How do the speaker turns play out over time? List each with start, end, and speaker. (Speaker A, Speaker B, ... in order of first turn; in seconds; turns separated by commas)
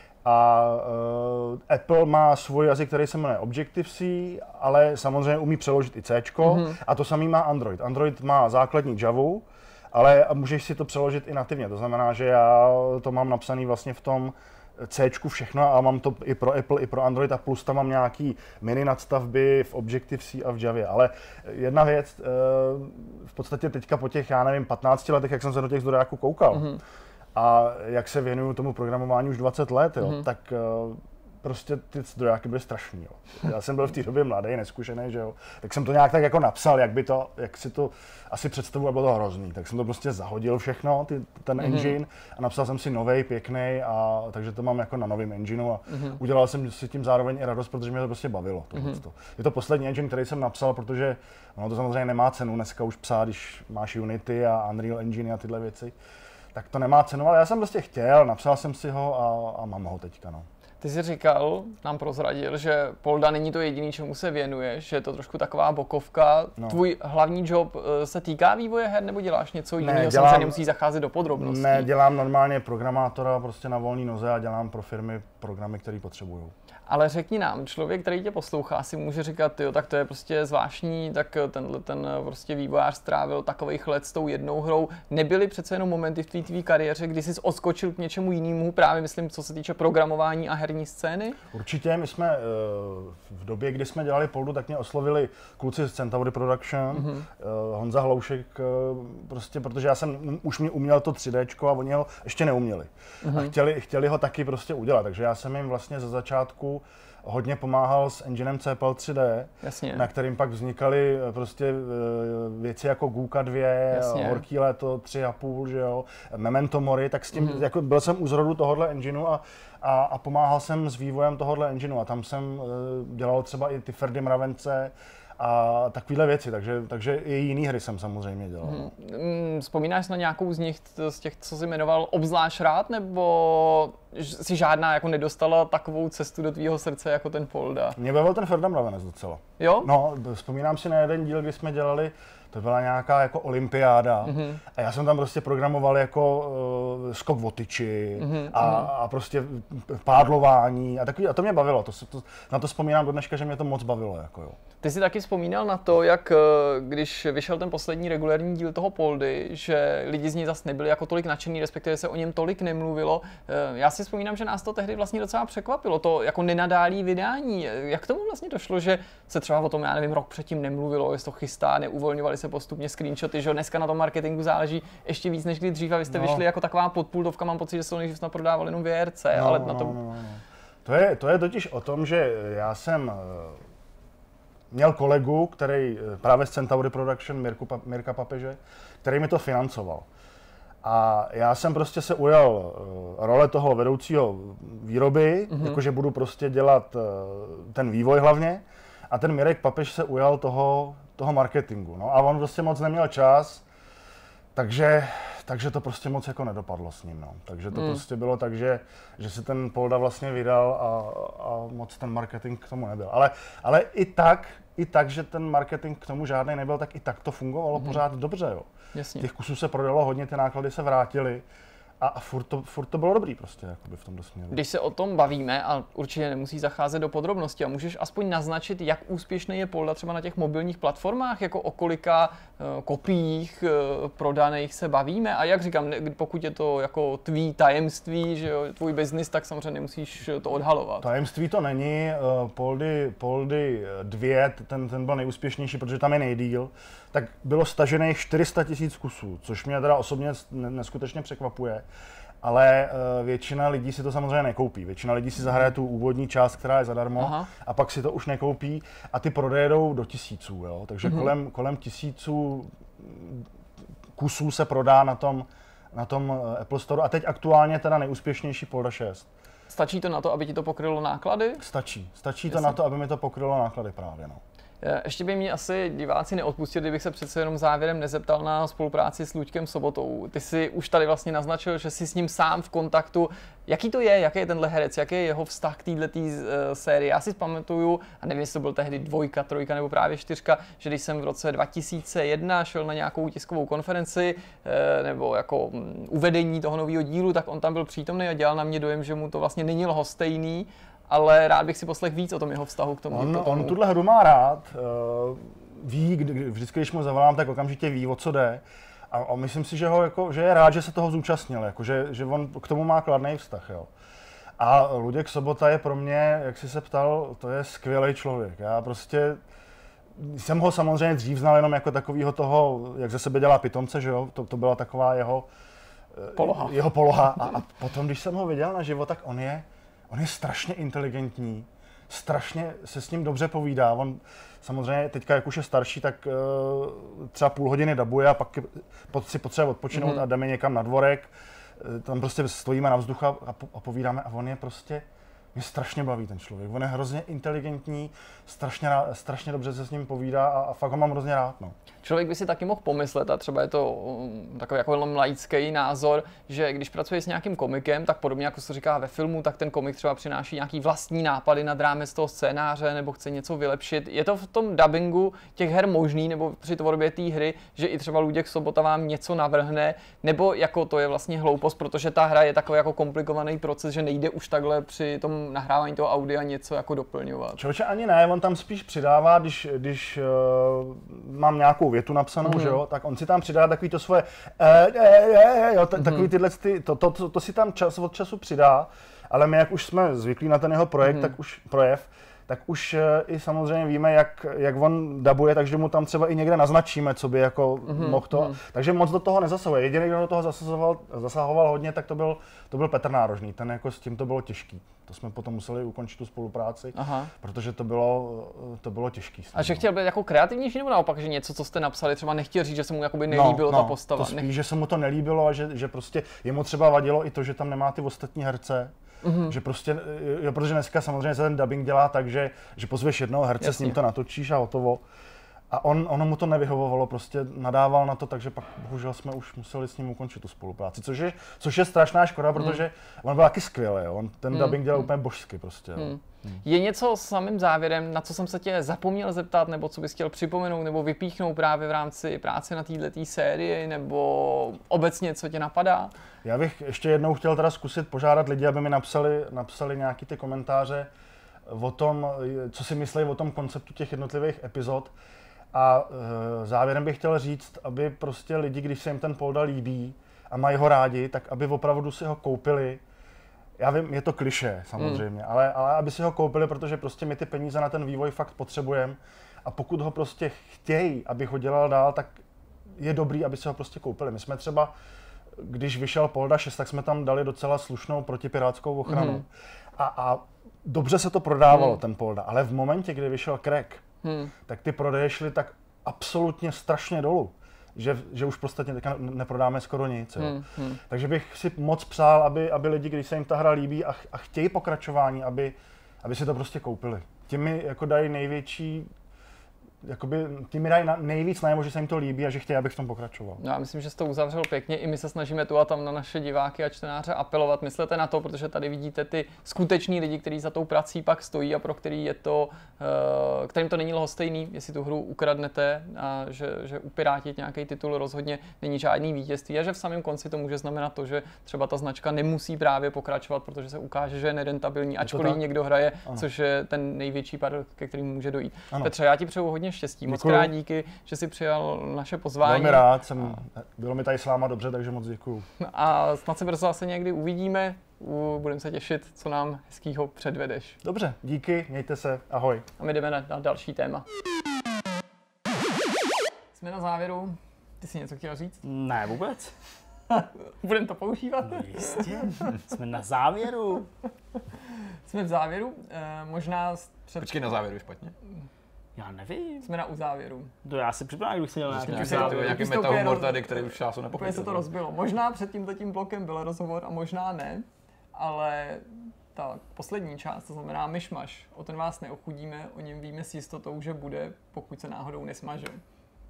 Speaker A: 0.2-26.8, Speaker B: 6.4-6.8, Speaker B: 26.5-26.8, Speaker A: 27.4-55.9, Speaker B: 41.6-42.0, Speaker B: 45.9-46.2, Speaker A: 56.5-60.5, Speaker B: 60.8-71.9, Speaker A: 69.8-70.6, Speaker A: 71.4-76.5, Speaker B: 76.9-91.4, Speaker A: 91.5-128.9, Speaker B: 96.9-97.3, Speaker B: 103.2-103.5, Speaker B: 109.6-110.1, Speaker B: 113.9-114.4, Speaker B: 117.3-117.6, Speaker B: 128.6-138.0, Speaker A: 138.0-154.6, Speaker B: 139.6-139.9, Speaker B: 144.2-144.6, Speaker B: 148.2-148.9, Speaker B: 154.8-180.0, Speaker A: 176.1-176.4, Speaker A: 179.3-183.6, Speaker A: 184.7-190.1, Speaker A: 190.8-203.6, Speaker B: 195.5-195.8, Speaker A: 204.6-221.4, Speaker B: 207.7-208.0, Speaker B: 217.7-218.0, Speaker B: 218.9-219.3, Speaker A: 222.0-224.6, Speaker B: 224.5-241.1, Speaker A: 241.0-251.8, Speaker A: 252.4-263.4, Speaker B: 257.2-257.5, Speaker B: 261.0-261.3, Speaker A: 264.2-269.3, Speaker B: 269.7-271.6, Speaker A: 271.6-274.4, Speaker B: 272.5-272.8, Speaker B: 274.8-303.8, Speaker A: 303.1-313.9, Speaker A: 314.6-319.4, Speaker A: 320.2-325.5, Speaker A: 326.1-351.8, Speaker B: 326.4-326.8, Speaker B: 339.9-340.3, Speaker B: 352.0-377.6, Speaker A: 377.6-409.8, Speaker B: 382.4-382.8, Speaker B: 386.0-386.3, Speaker B: 391.0-391.3, Speaker B: 397.9-398.6, Speaker B: 406.9-407.3, Speaker B: 409.5-414.5, Speaker A: 413.3-418.9, Speaker B: 419.2-419.6, Speaker A: 419.5-425.0, Speaker B: 423.6-424.0, Speaker A: 425.7-436.1, Speaker B: 432.6-432.8, Speaker B: 434.5-435.1, Speaker B: 436.0-446.1, Speaker A: 446.4-451.1, Speaker A: 451.7-455.1, Speaker A: 455.7-463.0, Speaker A: 463.8-472.4, Speaker B: 465.0-465.2, Speaker A: 473.0-474.9, Speaker A: 475.6-479.5, Speaker B: 479.1-479.4, Speaker A: 480.0-484.0, Speaker B: 481.7-482.0, Speaker B: 484.2-484.5, Speaker A: 484.7-499.1, Speaker B: 490.4-491.0, Speaker A: 500.0-503.6, Speaker B: 503.6-533.5, Speaker A: 525.2-525.6, Speaker A: 530.3-530.7, Speaker A: 532.6-535.7, Speaker B: 535.8-541.0, Speaker A: 541.0-542.9, Speaker B: 543.0-544.2, Speaker B: 546.8-548.8, Speaker C: 548.8-549.8, Speaker B: 550.3-552.7, Speaker C: 551.6-554.1, Speaker B: 555.3-557.7, Speaker D: 557.4-558.3, Speaker C: 559.2-559.9, Speaker B: 559.8-560.7, Speaker C: 560.8-562.9, Speaker D: 561.9-564.9, Speaker B: 562.0-576.0